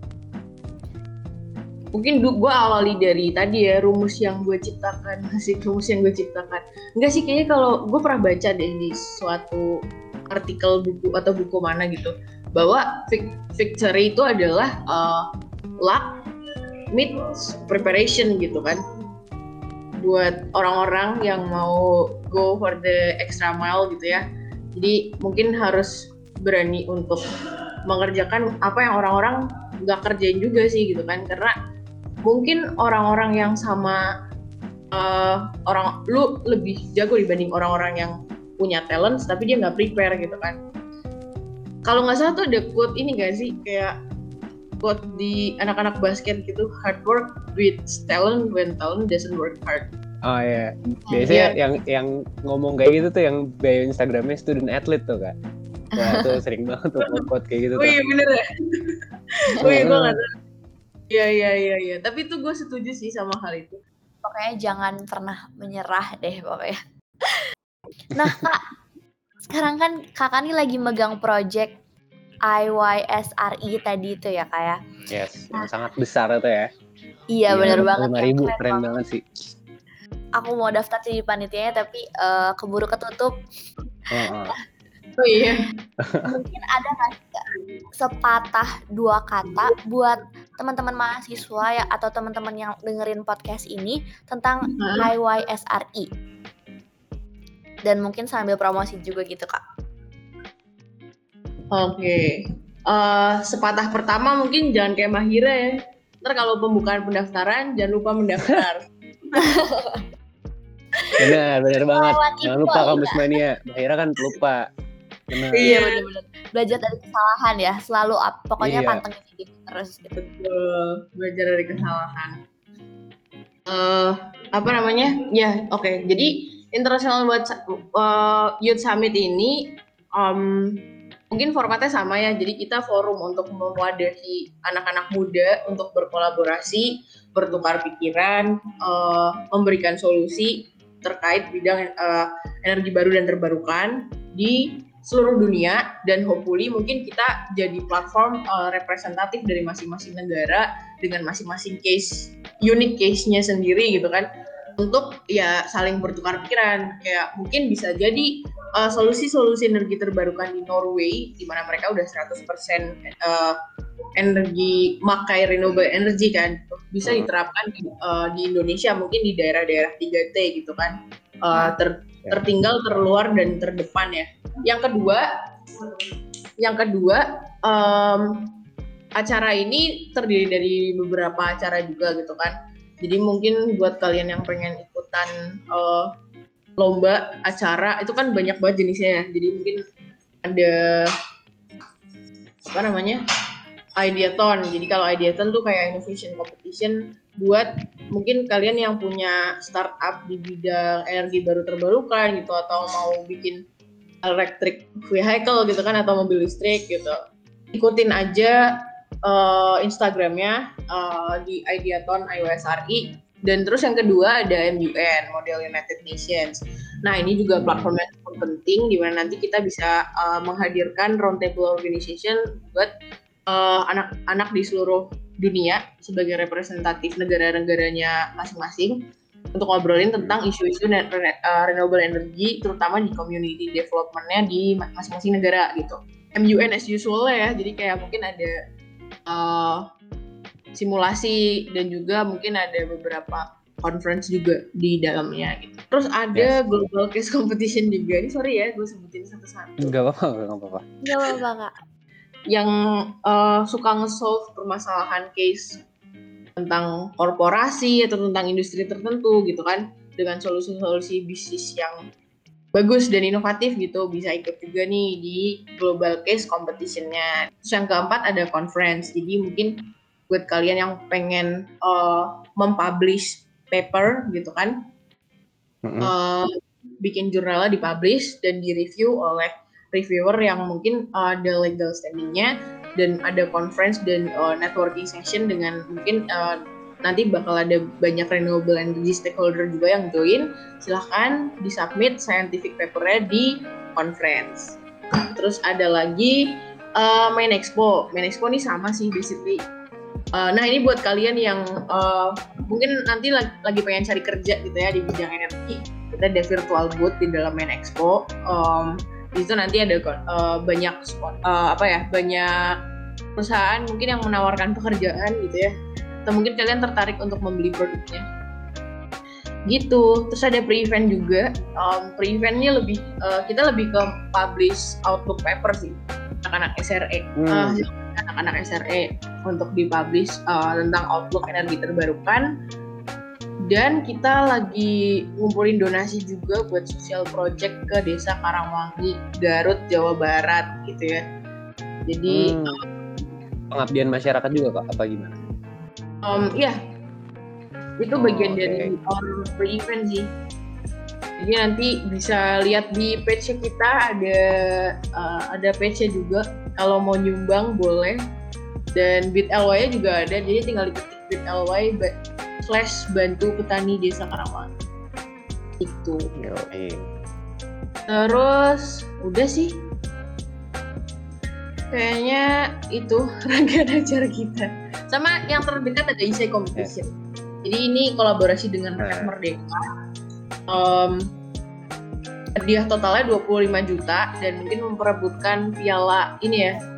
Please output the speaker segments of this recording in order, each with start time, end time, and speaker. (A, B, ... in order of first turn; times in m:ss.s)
0:01.9-0:09.7 A
0:10.3-0:15.2 A
0:15.8-0:16.1 A
0:16.9-0:18.8 A
0:20.0-0:24.2 A
0:24.7-0:27.2 A
0:27.9-0:31.5 A
0:32.2-0:34.0 A
0:34.9-0:40.6 A
0:41.8-0:44.0 A
0:44.8-0:49.9 A
0:50.2-0:55.3 B
0:51.2-0:51.6 A
0:56.0-0:58.0 B
0:57.8-0:59.0 A
0:59.6-1:00.3 A
0:59.6-1:00.2 B
1:01.1-1:03.8 A
1:04.2-1:07.4 C
1:08.2-1:08.6 C
1:09.5-1:11.7 C
1:12.5-1:14.8 C
1:15.1-1:16.7 B
1:17.3-1:18.9 C
1:17.5-1:19.2 B
1:20.4-1:23.3 C
1:24.1-1:24.5 B
1:25.2-1:25.7 A
1:26.0-1:26.3 B
1:26.2-1:27.4 C
1:28.0-1:36.1 C
1:34.7-1:35.1 A
1:37.8-1:39.6 C
1:41.7-1:48.9 A
1:49.4-1:50.0 C
1:51.2-1:54.6 B
1:51.9-1:53.2 C
1:55.3-1:55.8 B
1:55.5-1:55.9 A
1:55.6-2:00.1 C
1:58.6-1:59.0 B
2:00.1-2:02.4 A
2:03.7-2:43.6 A
2:44.2-2:55.2 A
2:47.0-2:47.3 B
2:56.6-2:58.5 A
2:59.2-3:06.1 A
3:06.8-3:09.8 A
3:10.4-3:11.1 A
3:12.7-3:13.2 A
3:14.0-3:23.6 A
3:24.2-3:27.2 A
3:27.7-3:28.6 A
3:29.2-3:42.9 A
3:37.6-3:37.9 B
3:43.5-3:49.0 A
3:49.5-3:58.6 A
3:59.3-3:59.8 A
4:00.8-4:09.9 A
4:06.3-4:06.6 B
4:09.8-4:10.8 B
4:11.0-4:11.7 C
4:12.5-4:15.8 A
4:16.6-4:22.0 A
4:22.7-4:34.7 A
4:35.8-4:36.1 B
4:36.0-4:54.8 A
4:55.3-4:59.6 A
5:00.3-5:12.7 A
5:13.4-5:15.7 A
5:16.2-5:18.2 A
5:19.7-5:32.5 A
5:27.4-5:27.8 B
5:33.6-5:41.2 A
5:42.1-5:42.8 A
5:42.3-5:42.8 B
5:43.7-5:45.4 B
5:46.2-5:46.8 A
5:48.0-5:50.3 A
5:48.1-5:48.9 B
5:51.4-5:58.2 A
5:58.9-6:04.7 A
6:05.8-6:06.3 A
6:06.4-6:07.1 B
6:08.1-6:09.8 A
6:11.9-6:17.1 A
6:17.6-6:19.8 A
6:19.0-6:19.3 B
6:20.7-6:21.2 A
6:22.6-6:26.8 A